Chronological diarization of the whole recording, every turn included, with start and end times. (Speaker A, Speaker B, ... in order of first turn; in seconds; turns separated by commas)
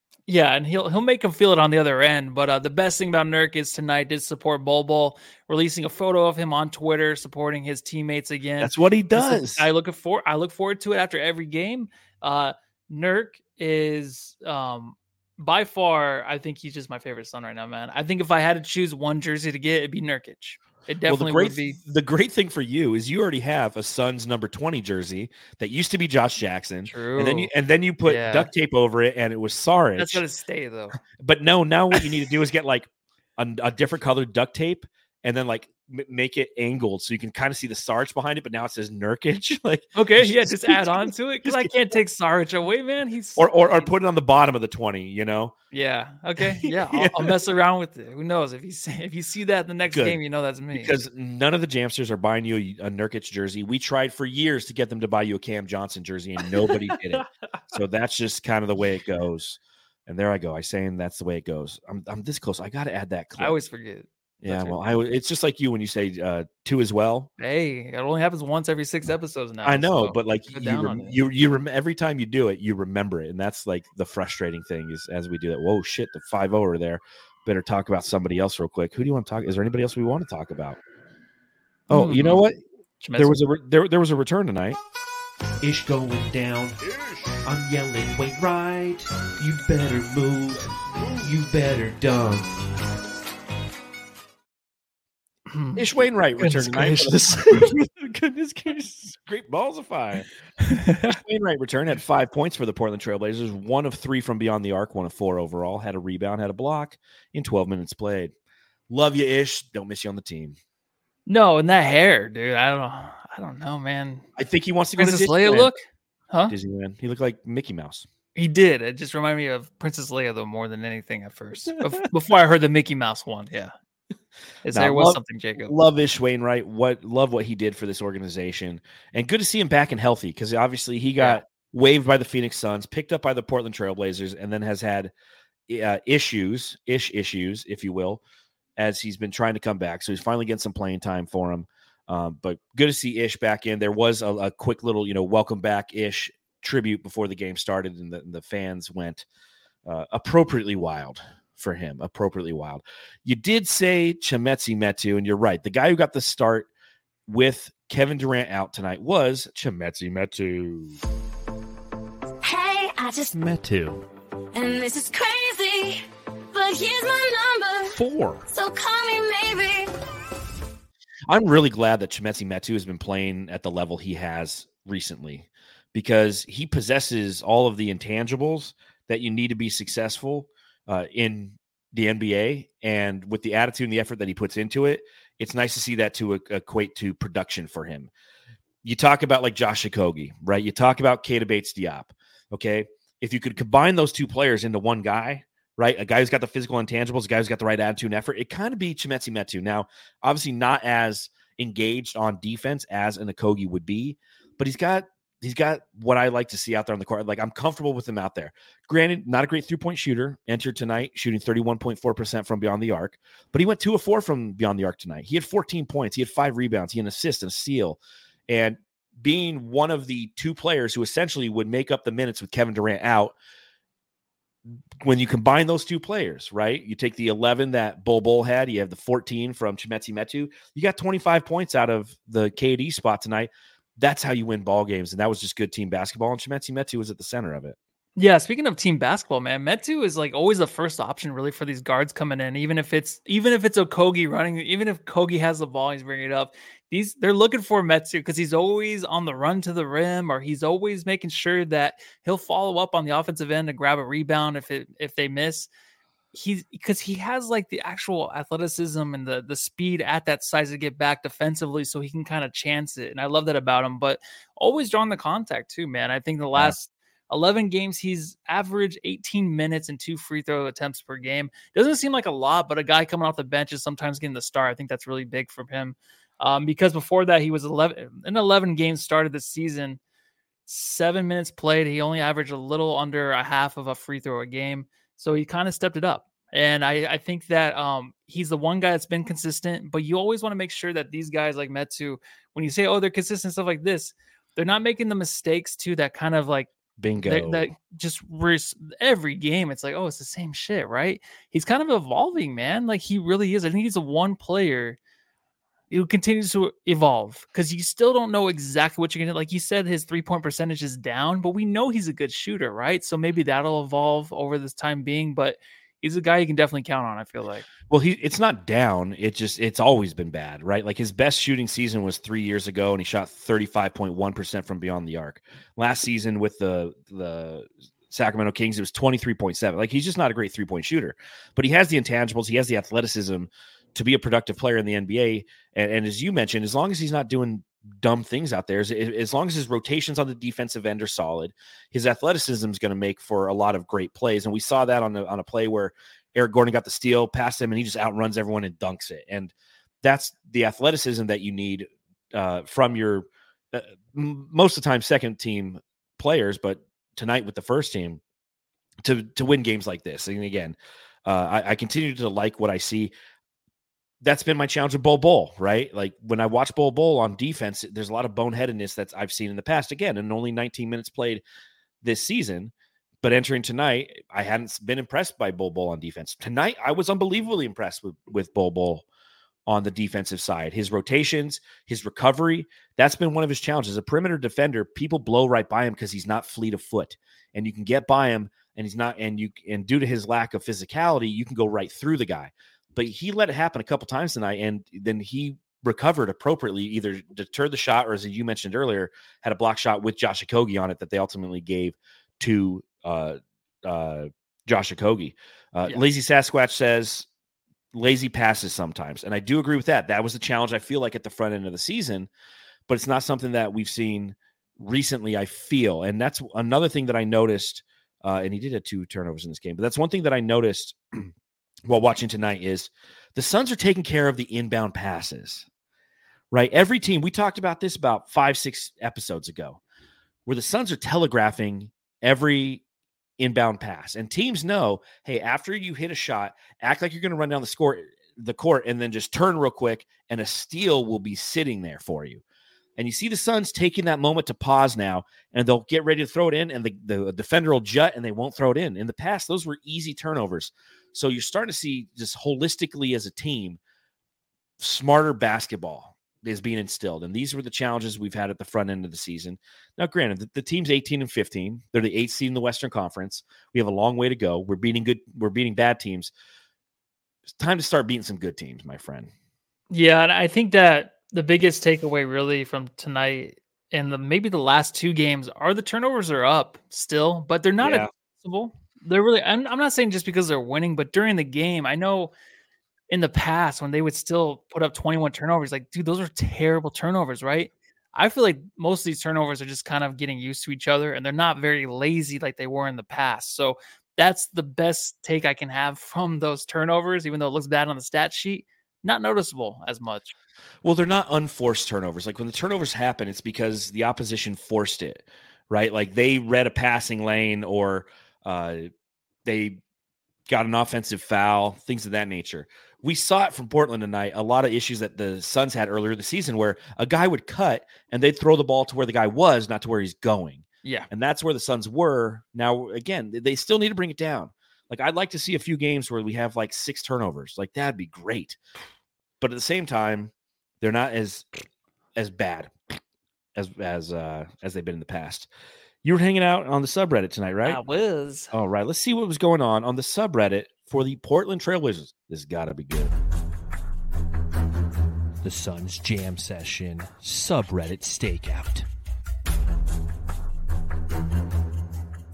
Speaker A: 0.3-21.8, Speaker B: 8.6-9.7, Speaker B: 21.1-30.2, Speaker A: 26.9-27.5, Speaker A: 28.1-28.5, Speaker A: 30.0-31.0, Speaker B: 31.1-41.9, Speaker A: 40.0-43.9, Speaker B: 43.4-45.5, Speaker A: 45.7-50.9, Speaker B: 46.4-47.4, Speaker B: 49.9-50.2, Speaker B: 50.7-63.6, Speaker A: 63.4-64.8, Speaker B: 64.4-67.3, Speaker A: 67.4-71.2, Speaker B: 69.6-80.8, Speaker B: 81.9-82.6, Speaker A: 81.9-82.4, Speaker A: 83.0-83.4, Speaker B: 83.2-84.8, Speaker C: 85.6-86.8, Speaker C: 87.4-92.6, Speaker A: 95.5-95.9, Speaker B: 95.8-100.3, Speaker A: 96.4-97.7, Speaker A: 100.7-101.2, Speaker B: 101.0-108.3, Speaker B: 108.9-110.6, Speaker A: 111.3-114.3, Speaker B: 114.4-115.7, Speaker A: 115.0-115.8, Speaker B: 116.5-118.1, Speaker A: 118.4-123.7, Speaker A: 124.7-125.7, Speaker B: 124.7-135.1, Speaker B: 135.7-138.2, Speaker B: 138.8-149.2, Speaker B: 149.9-156.7, Speaker B: 157.3-161.0, Speaker D: 162.4-163.4, Speaker C: 163.3-164.0, Speaker D: 164.5-168.0, Speaker B: 167.9-168.5, Speaker D: 168.5-169.9, Speaker B: 171.3-188.1, Speaker B: 188.8-223.3, Speaker B: 225.0-237.8, Speaker A: 238.2-255.7, Speaker A: 256.3-280.0, Speaker A: 280.7-305.0, Speaker B: 297.0-297.7, Speaker A: 305.9-317.7, Speaker B: 317.9-358.2, Speaker B: 359.0-363.1, Speaker B: 364.2-371.4, Speaker B: 372.0-379.1, Speaker B: 379.7-407.3, Speaker B: 407.9-412.3, Speaker B: 412.9-421.3, Speaker B: 421.9-425.7, Speaker B: 426.5-429.8, Speaker B: 430.5-432.8, Speaker B: 433.4-442.4, Speaker B: 443.0-453.8, Speaker B: 454.8-466.3, Speaker B: 467.5-469.3, Speaker A: 469.9-482.3, Speaker B: 477.8-478.1, Speaker A: 483.1-500.4, Speaker B: 500.8-508.9, Speaker B: 509.4-509.8, Speaker B: 510.5-528.6, Speaker A: 520.8-521.1, Speaker B: 529.4-531.5, Speaker B: 532.2-533.0, Speaker B: 533.5-535.5, Speaker B: 536.0-537.8, Speaker A: 537.6-538.5, Speaker B: 538.5-543.1, Speaker B: 545.4-548.9